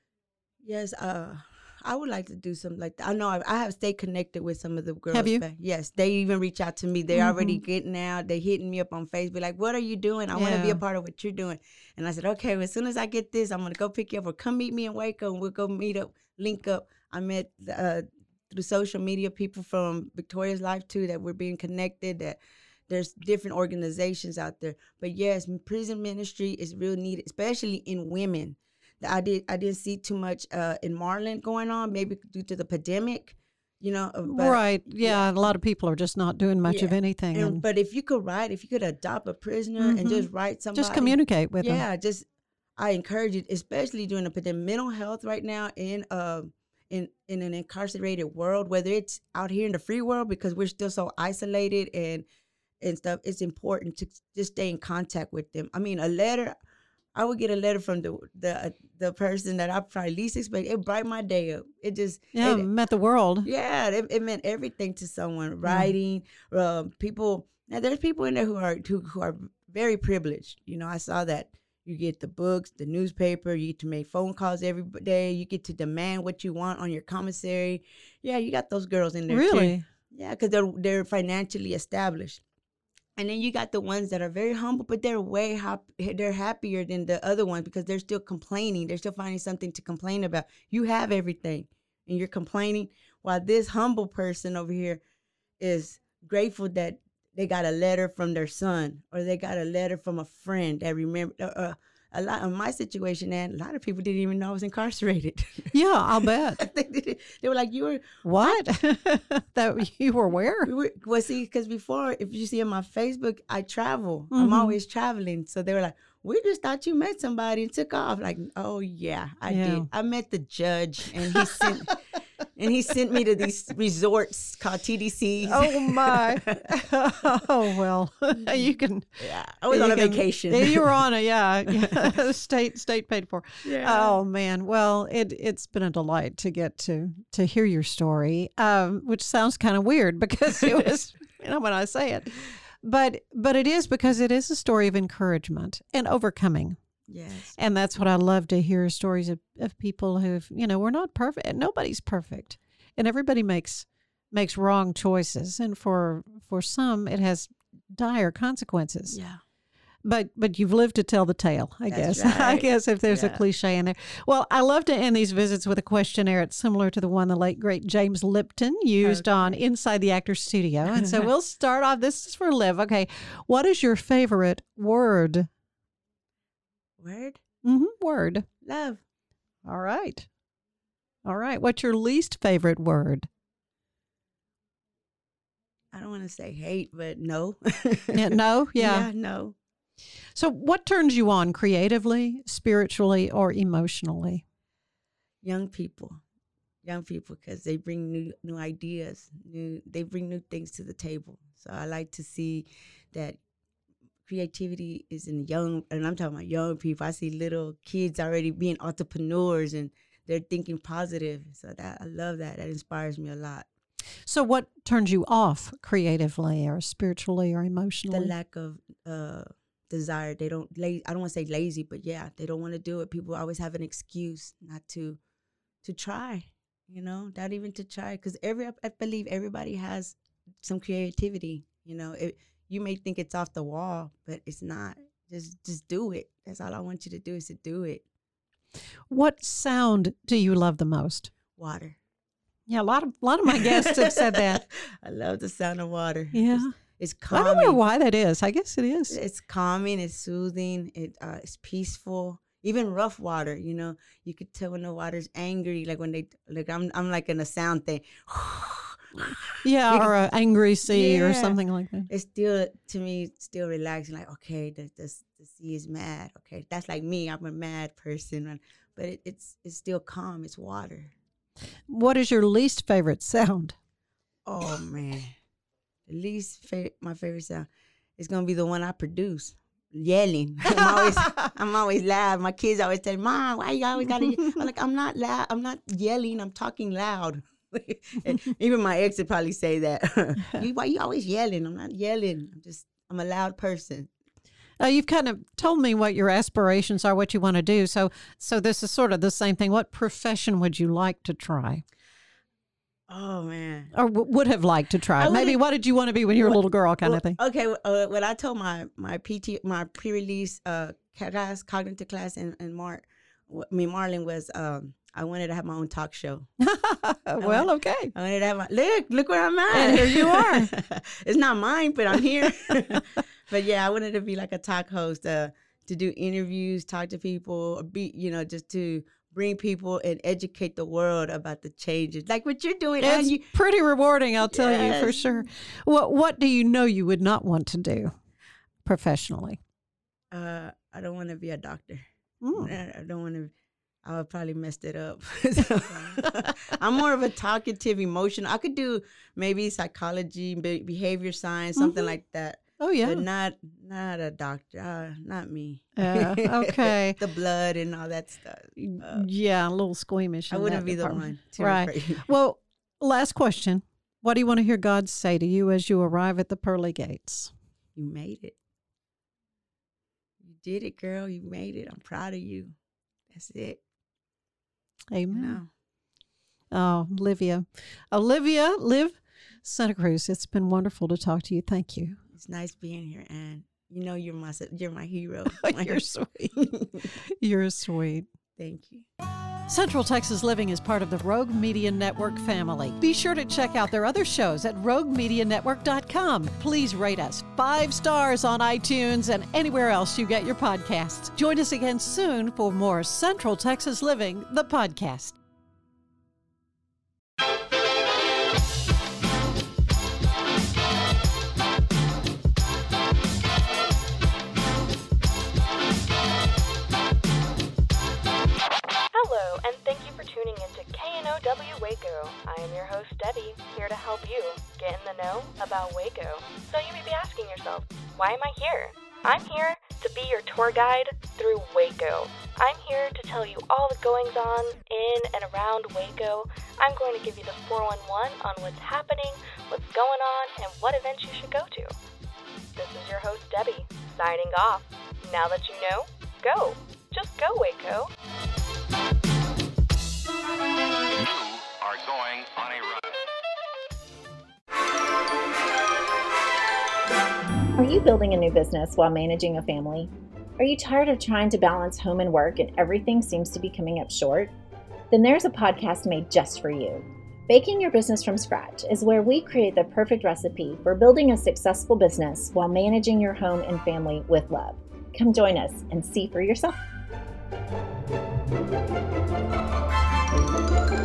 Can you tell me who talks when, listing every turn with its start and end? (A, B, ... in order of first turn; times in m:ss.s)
0:00.6-0:35.5 A
0:05.1-0:05.4 B
0:07.1-0:07.6 B
0:10.3-0:10.8 B
0:34.2-0:37.6 B
0:36.6-0:42.2 A
0:39.8-0:41.8 B
0:42.8-0:52.2 A
0:52.8-0:56.6 A
0:57.1-1:02.7 A
1:02.3-1:03.5 B
1:03.4-1:22.4 A
1:05.6-1:05.9 B
1:19.3-1:19.8 B
1:23.2-1:35.0 A
1:35.6-1:48.6 A
1:45.7-1:46.6 B
1:48.2-1:50.7 B
1:50.6-2:02.0 A
1:54.3-1:54.8 B
1:59.5-1:59.9 B
2:01.3-2:01.9 B
2:02.6-2:06.6 A
2:05.4-2:26.8 B
2:09.2-2:11.0 A
2:11.7-2:12.1 A
2:13.6-2:14.2 A
2:27.1-2:27.5 A
2:27.6-2:39.2 B
2:39.1-2:39.4 A
2:40.0-2:55.5 B
2:41.9-2:43.4 A
2:49.0-2:49.6 A
2:50.9-2:51.3 A
2:57.0-2:57.4 A
2:57.6-2:58.4 B
2:58.6-2:59.0 A
2:59.6-3:00.3 B
3:01.2-3:03.3 B
3:05.9-3:09.6 A
3:08.1-3:09.1 B
3:10.3-3:14.4 B
3:15.4-3:16.2 A
3:16.8-3:23.4 A
3:24.2-3:33.7 A
3:34.2-3:38.3 B
3:38.1-3:45.2 A
3:45.8-3:58.0 A
3:59.1-4:01.3 B
4:01.5-4:02.0 A
4:02.7-4:04.6 B
4:03.5-4:07.8 A
4:06.3-4:06.7 B
4:07.3-4:09.2 B
4:09.1-4:20.1 A
4:19.2-4:22.1 B
4:20.9-4:31.1 A
4:31.9-4:33.8 B
4:34.4-4:35.4 A
4:36.1-4:54.1 A
4:40.7-4:41.5 B
4:54.8-5:01.8 B
5:03.1-5:03.9 A
5:03.9-5:07.4 B
5:05.2-5:05.6 A
5:06.4-5:16.5 A
5:16.6-5:18.1 B
5:17.4-5:33.5 A
5:19.7-5:20.7 B
5:33.0-5:38.1 B
5:34.4-5:35.5 A
5:38.8-5:39.6 B
5:40.3-5:43.5 A
5:42.4-5:42.7 B
5:44.0-5:59.3 A
5:46.2-5:46.5 B
5:51.8-5:52.1 B
5:52.8-5:53.2 B
5:56.0-5:57.2 B
5:58.8-6:07.5 B
6:00.5-6:02.3 A
6:08.0-6:08.6 A
6:10.4-6:12.8 A
6:13.3-6:13.8 A
6:15.1-6:15.6 B
6:15.3-6:15.7 A
6:16.7-6:22.2 B
6:22.3-6:26.0 A
6:25.5-6:26.7 B
6:26.6-6:27.1 A
6:27.4-6:28.2 B
6:28.6-6:29.1 A
6:29.7-6:45.4 B
6:59.1-7:21.9 C
7:22.8-7:28.1 C
7:31.2-7:33.2 D
7:37.8-7:44.5 E
7:45.1-7:56.8 E